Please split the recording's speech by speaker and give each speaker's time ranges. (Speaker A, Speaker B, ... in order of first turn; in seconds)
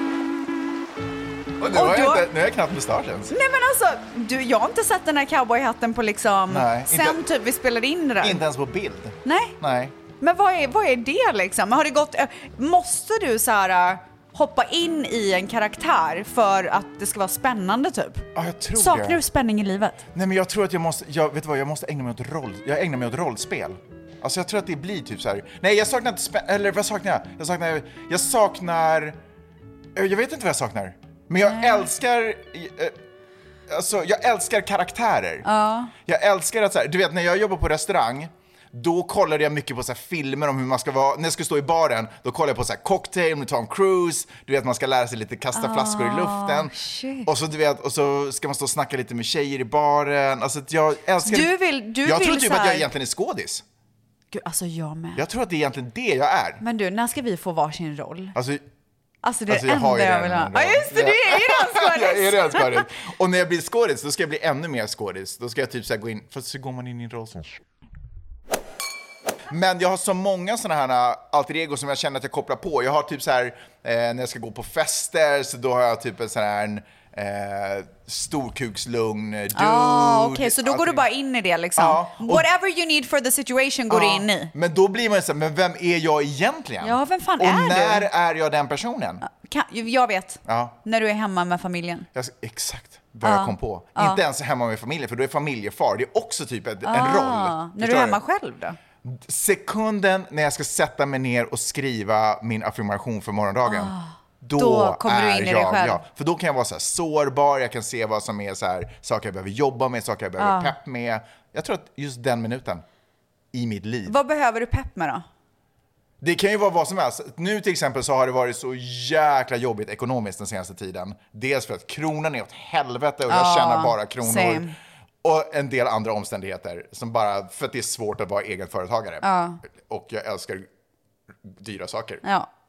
Speaker A: 1.6-3.3, 6.5-7.2, 8.2-9.9, 18.3-19.2, 20.1-29.2, 29.9-33.0, 33.7-35.5, 36.0-53.6, 55.1-56.6, 58.3-58.6, 59.5-67.5, 69.5-81.0, 81.8-82.5, 83.9-89.2, 90.4-90.7, 92.1-98.2, 99.0-112.8, 113.5-114.1, 116.2-124.7, 125.2-130.7, 131.4-132.2
Speaker B: 1.7-2.3, 3.3-8.4, 9.2-9.6, 10.2-20.0, 31.4-31.9, 35.4-35.9, 45.5-47.3, 51.2-52.9, 54.3-55.2, 56.6-58.3, 59.2-62.8, 79.5-84.5, 86.8-88.1, 89.2-92.1, 93.2-94.2, 96.8-98.8, 103.7-106.0, 110.4-110.7, 114.0-115.2, 123.3-124.7, 129.2-129.6, 132.2-132.5